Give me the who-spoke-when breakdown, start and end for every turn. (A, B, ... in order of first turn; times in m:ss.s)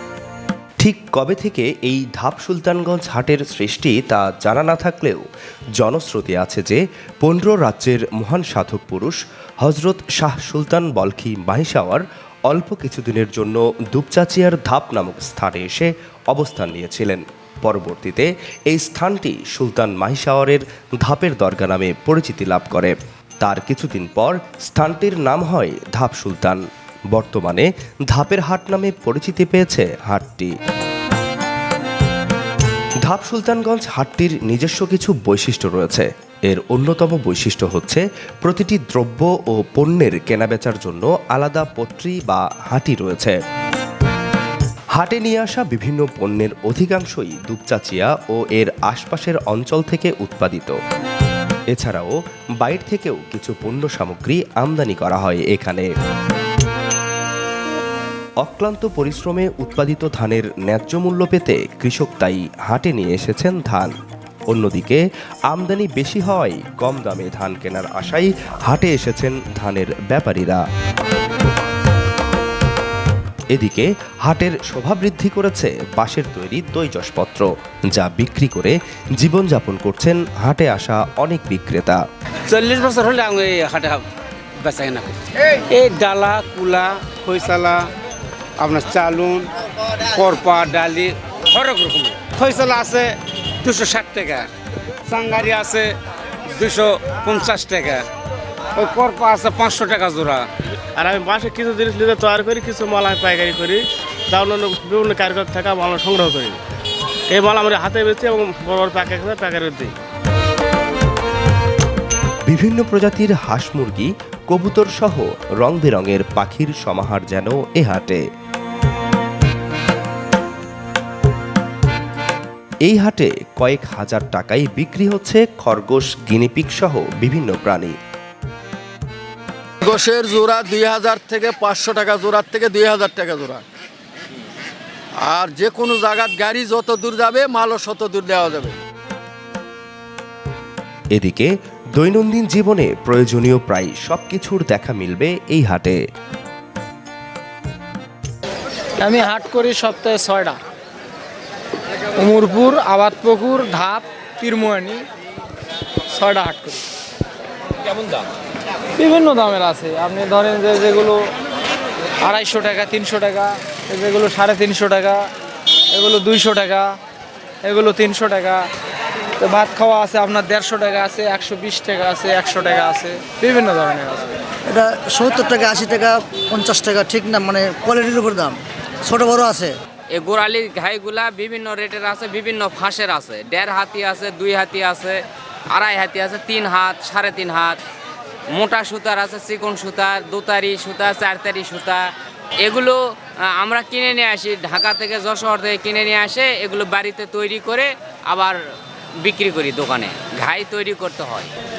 0:00.8-0:05.2 A
0:05.8-0:30.5 A
0:33.0-0:43.4 A
0:45.0-0:50.8 A
0:51.7-0:55.9 A
0:58.4-1:03.9 A
1:04.5-1:10.6 A
1:13.5-1:22.0 A
1:22.5-1:24.0 B
1:24.6-1:27.9 B
1:28.6-1:29.5 B
1:30.0-1:33.1 B
1:33.6-1:34.5 B
1:35.1-1:35.9 B
1:36.5-1:38.0 B
1:38.7-1:40.5 B
1:41.0-1:46.6 C
1:47.3-1:49.9 C
1:52.5-1:58.2 A
2:02.9-2:08.0 A
2:09.8-2:13.6 D
2:15.2-2:18.7 D
2:21.1-2:26.0 A
2:29.0-2:30.6 E
2:32.2-2:35.0 E
2:36.1-2:36.8 E
2:39.0-2:41.3 E
2:42.2-2:45.3 E
2:45.9-2:47.0 E
2:47.6-2:48.6 E
2:49.4-2:54.3 E
2:54.7-2:59.7 F
3:00.1-3:07.8 G
3:08.5-3:18.6 G
3:19.2-3:21.5 G